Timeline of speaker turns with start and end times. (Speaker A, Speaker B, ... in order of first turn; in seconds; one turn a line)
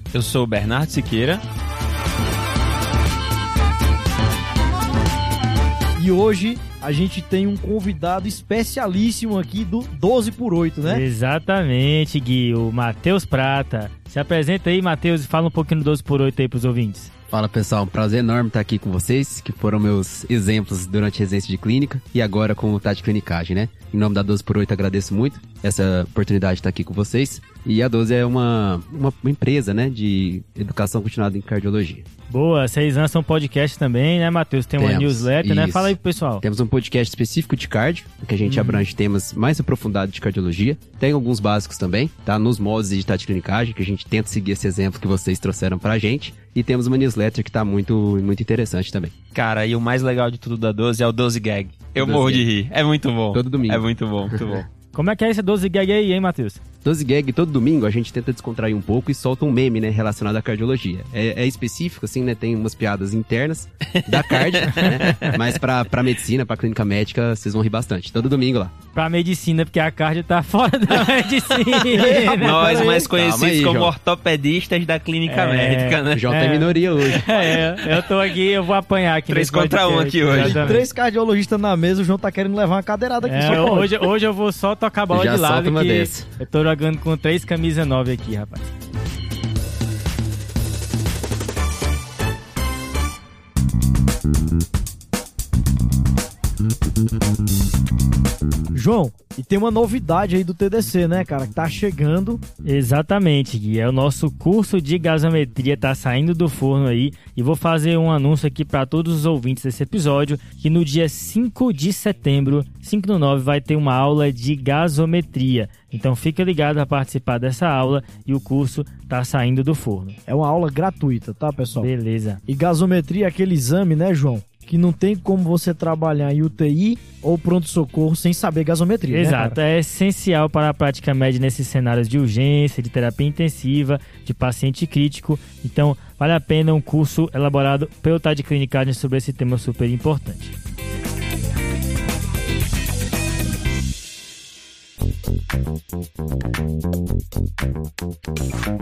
Speaker A: 0.1-1.4
Speaker B: 6.0-11.1
Speaker C: 10.8-17.1
Speaker D: 17.3-32.0
Speaker C: 32.3-36.4
Speaker D: 34.8-49.1
Speaker C: 38.4-38.9
Speaker A: 49.3-54.6
Speaker D: 52.0-52.5
Speaker D: 53.3-54.6
Speaker C: 54.9-56.6
Speaker D: 56.8-68.7
Speaker A: 64.0-65.4
Speaker C: 68.9-72.8
Speaker B: 71.9-73.1
Speaker A: 72.1-76.3
Speaker D: 73.0-73.9
Speaker C: 75.3-80.9
Speaker D: 76.1-77.6
Speaker A: 79.3-80.8
Speaker B: 80.4-84.0
Speaker C: 83.2-88.7
Speaker D: 85.1-86.3
Speaker B: 98.7-102.4
Speaker C: 102.6-120.2
Speaker B: 120.3-121.9
Speaker C: 121.8-122.4
Speaker B: 122.5-129.6
Speaker C: 129.1-140.5